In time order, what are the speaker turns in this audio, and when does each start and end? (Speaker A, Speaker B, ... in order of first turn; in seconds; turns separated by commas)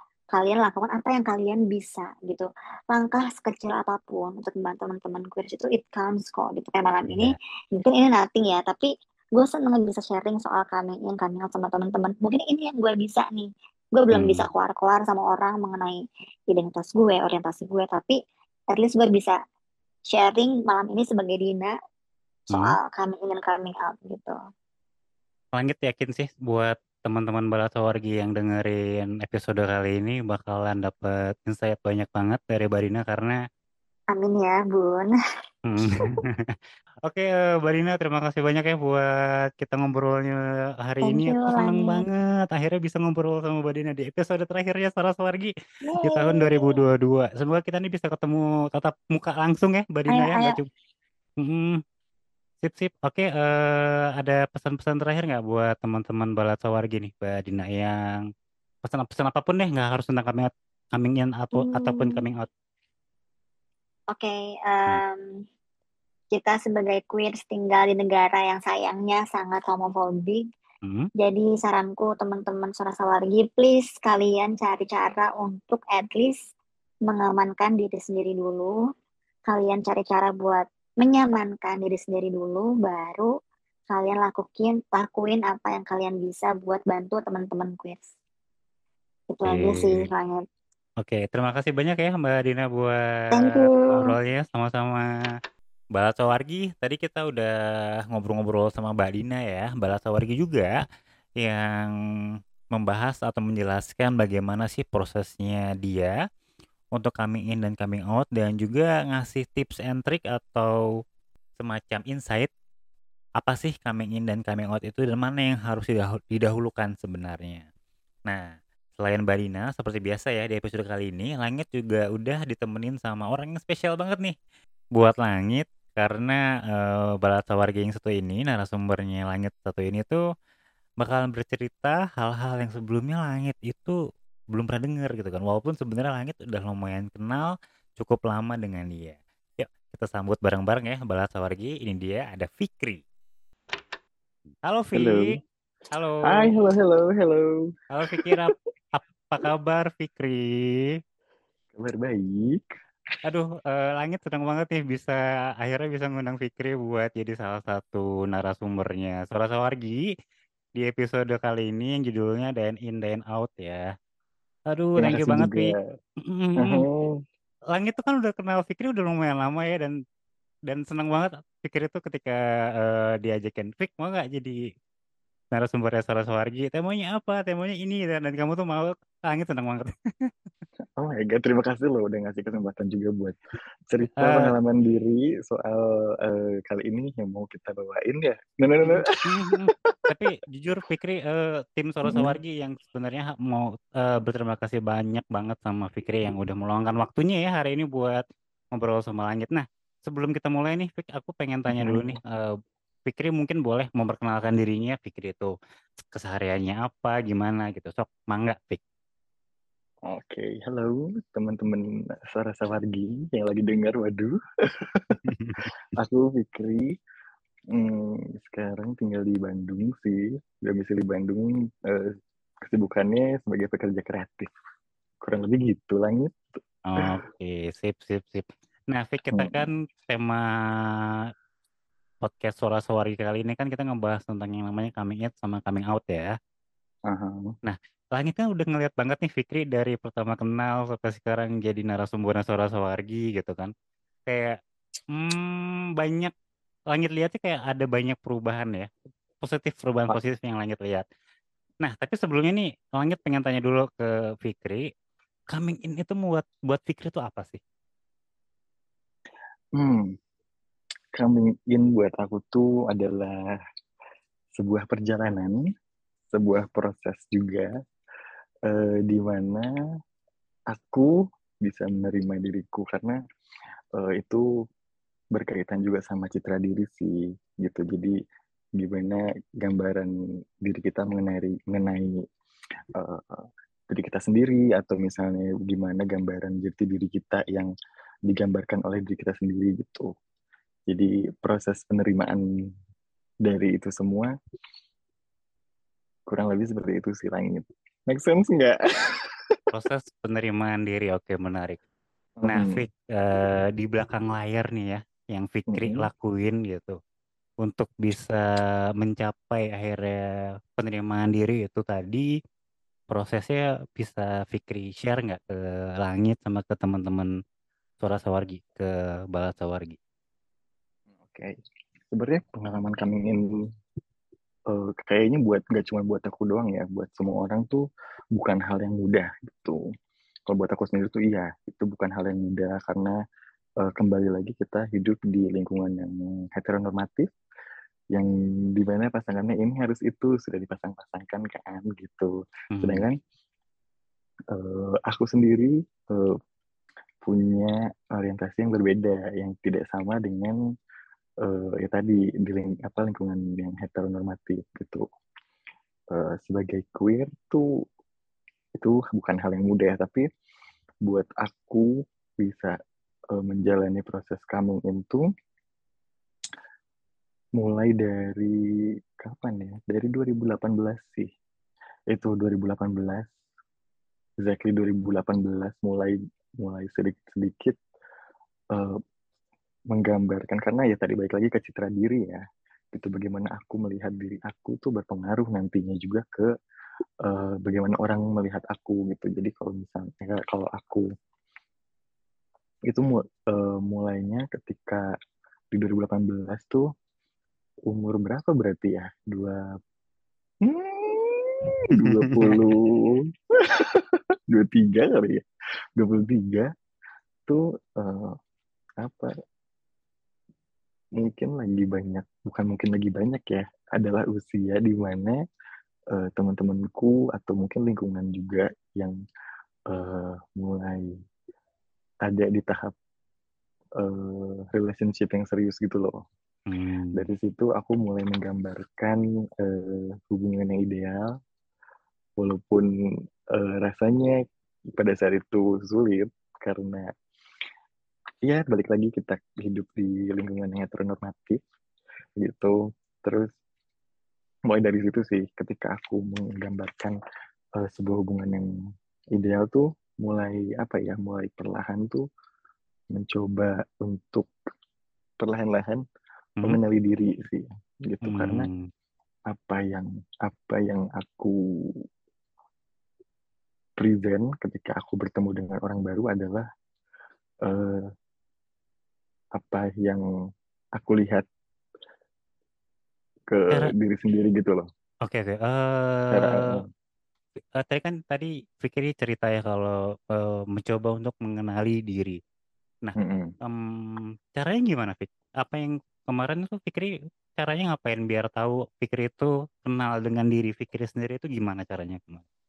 Speaker A: 0.3-18.2, Speaker B: 7.1-7.3, Speaker B: 14.1-14.4, Speaker A: 18.7-19.4, Speaker A: 20.1-21.7, Speaker A: 22.5-24.4, Speaker B: 25.6-33.4, Speaker A: 34.1-35.1, Speaker B: 35.7-36.1, Speaker B: 37.0-50.7, Speaker A: 41.0-42.0, Speaker A: 45.9-46.8, Speaker A: 50.1-50.5, Speaker B: 51.4-51.8, Speaker B: 52.6-58.2, Speaker B: 58.8-62.5, Speaker A: 61.5-62.2, Speaker A: 64.1-65.4, Speaker A: 66.3-70.4, Speaker A: 71.2-76.4, Speaker A: 77.1-78.7, Speaker A: 79.5-83.3, Speaker A: 83.9-88.1, Speaker A: 89.3-90.4, Speaker B: 89.5-90.0, Speaker B: 91.0-95.1, Speaker A: 93.3-94.1, Speaker B: 96.0-97.5, Speaker B: 98.1-100.7, Speaker B: 101.4-101.9, Speaker B: 102.7-106.1, Speaker B: 107.0-110.8, Speaker B: 111.6-112.5, Speaker B: 113.4-117.6, Speaker B: 118.3-124.3, Speaker B: 125.0-130.2, Speaker B: 131.0-134.0, Speaker B: 134.5-143.0, Speaker B: 144.6-145.4, Speaker C: 144.9-145.4, Speaker B: 145.9-146.5, Speaker C: 146.2-148.5, Speaker B: 147.9-150.4, Speaker C: 151.7-152.7, Speaker B: 153.2-160.0, Speaker B: 160.8-163.8, Speaker B: 164.7-166.8, Speaker C: 165.0-165.8, Speaker C: 166.6-167.1, Speaker B: 167.7-169.9, Speaker B: 170.7-174.6, Speaker B: 175.5-180.3, Speaker C: 181.0-183.4, Speaker C: 183.9-190.1, Speaker B: 184.2-184.5, Speaker B: 188.8-202.4, Speaker C: 192.1-192.4, Speaker C: 201.7-202.2, Speaker B: 203.1-208.8, Speaker C: 210.1-215.2, Speaker B: 215.3-215.7, Speaker C: 215.9-216.9, Speaker C: 217.7-222.1, Speaker C: 222.7-224.5, Speaker C: 225.2-226.4, Speaker B: 226.9-230.4, Speaker C: 229.3-229.6, Speaker B: 232.2-236.3, Speaker C: 237.1-237.5, Speaker B: 237.6-243.7, Speaker B: 244.3-244.6, Speaker B: 245.1-246.3, Speaker B: 246.9-251.0, Speaker B: 251.8-254.8, Speaker B: 255.5-257.6, Speaker C: 259.8-260.2, Speaker C: 261.1-263.5, Speaker C: 264.6-265.6, Speaker C: 266.3-267.7, Speaker C: 268.7-269.7, Speaker C: 270.7-273.2, Speaker C: 273.9-274.4, Speaker C: 275.3-278.1, Speaker C: 278.8-280.1, Speaker C: 280.6-282.2, Speaker C: 282.9-287.7, Speaker C: 288.3-290.1, Speaker C: 290.9-292.4, Speaker C: 293.4-294.3, Speaker C: 296.3-299.6, Speaker B: 299.7-301.8, Speaker C: 302.4-302.8, Speaker B: 302.5-307.0, Speaker C: 305.7-306.1, Speaker B: 307.6-310.2, Speaker B: 310.8-312.3, Speaker B: 313.1-317.3, Speaker B: 318.0-320.0, Speaker C: 321.2-321.6, Speaker C: 322.1-323.6, Speaker C: 324.7-327.8, Speaker C: 328.4-329.8, Speaker C: 330.5-333.1, Speaker C: 333.8-337.3, Speaker C: 338.1-343.2, Speaker B: 342.7-343.1, Speaker C: 344.5-346.3, Speaker C: 347.2-350.6, Speaker C: 351.4-355.0, Speaker C: 356.1-357.6, Speaker C: 358.8-360.3, Speaker C: 361.0-361.9, Speaker C: 362.4-362.8, Speaker C: 363.3-365.2, Speaker C: 367.6-368.5, Speaker C: 369.2-371.3, Speaker C: 372.1-373.3, Speaker C: 374.4-377.8, Speaker C: 379.9-382.4, Speaker C: 382.9-386.5, Speaker C: 387.2-391.0, Speaker C: 392.9-395.0, Speaker C: 395.7-396.9, Speaker C: 397.9-399.6, Speaker C: 400.6-405.4, Speaker B: 402.0-402.7, Speaker C: 406.0-406.7, Speaker C: 407.5-408.3, Speaker C: 409.0-409.3, Speaker C: 411.2-415.4, Speaker C: 416.1-419.2, Speaker C: 419.9-421.1, Speaker C: 422.2-422.9, Speaker C: 424.0-426.2, Speaker B: 426.7-427.2, Speaker C: 427.1-431.2, Speaker C: 432.4-432.9, Speaker C: 433.5-434.4, Speaker C: 434.9-437.1, Speaker C: 438.4-441.6, Speaker C: 442.4-442.7, Speaker C: 443.2-443.5, Speaker C: 444.7-447.2, Speaker C: 447.8-448.7, Speaker C: 449.4-452.2, Speaker C: 453.1-454.5, Speaker C: 455.4-456.0, Speaker C: 456.6-458.7, Speaker B: 458.3-458.9, Speaker C: 459.5-461.5, Speaker C: 464.0-466.6, Speaker C: 467.6-468.0, Speaker C: 469.5-470.2, Speaker C: 471.0-471.4, Speaker C: 473.5-474.9, Speaker B: 475.2-476.7, Speaker C: 476.3-476.9, Speaker B: 477.8-482.4, Speaker B: 483.0-492.4, Speaker C: 483.2-483.5